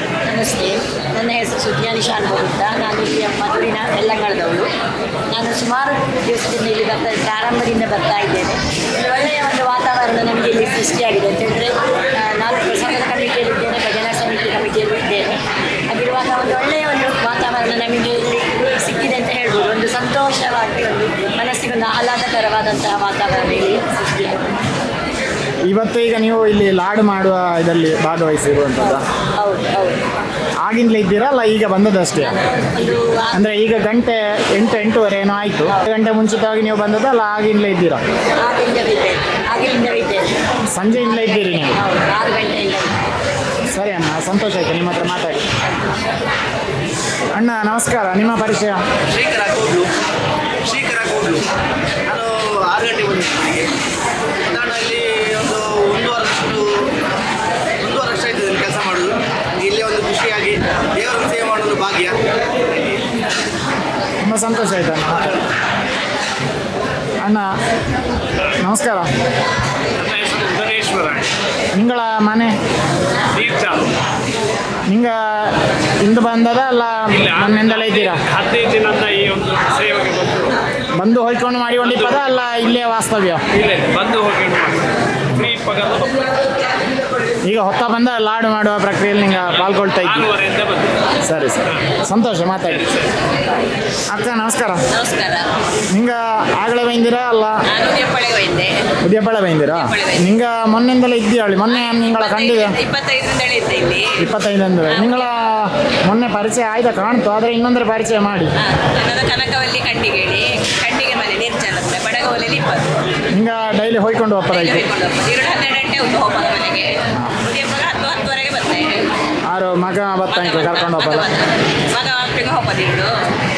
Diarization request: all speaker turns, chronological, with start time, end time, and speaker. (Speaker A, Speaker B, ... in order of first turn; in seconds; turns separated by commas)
Speaker A: 0.3-4.7, Speaker A: 5.3-15.3, Speaker A: 15.9-24.4, Speaker B: 25.7-29.0, Speaker A: 28.8-30.0, Speaker B: 30.6-32.4, Speaker A: 32.2-33.4, Speaker B: 33.3-38.0, Speaker A: 38.4-40.3, Speaker B: 40.7-41.8, Speaker A: 41.0-42.9, Speaker B: 43.7-45.4, Speaker B: 47.3-48.8, Speaker C: 49.1-49.9, Speaker C: 50.6-51.4, Speaker C: 52.1-53.7, Speaker C: 54.4-56.7, Speaker C: 57.8-62.1, Speaker B: 64.2-65.4, Speaker B: 67.2-67.5, Speaker B: 68.6-69.1, Speaker D: 70.0-71.3, Speaker B: 71.8-72.5, Speaker D: 73.3-73.8, Speaker B: 74.9-78.2, Speaker D: 77.1-80.5, Speaker B: 81.0-83.4, Speaker D: 81.8-82.4, Speaker D: 83.5-86.5, Speaker B: 87.5-90.3, Speaker D: 89.5-91.0, Speaker B: 91.2-92.9, Speaker D: 92.7-93.1, Speaker B: 94.1-94.8, Speaker E: 94.9-95.5, Speaker B: 95.9-97.6, Speaker E: 97.7-98.7, Speaker B: 99.0-102.8, Speaker E: 99.7-100.3, Speaker E: 101.7-104.2, Speaker B: 104.2-108.5, Speaker E: 104.9-105.4, Speaker E: 108.6-112.9, Speaker B: 113.3-114.8, Speaker E: 114.5-119.0, Speaker B: 119.5-121.3, Speaker E: 120.3-123.1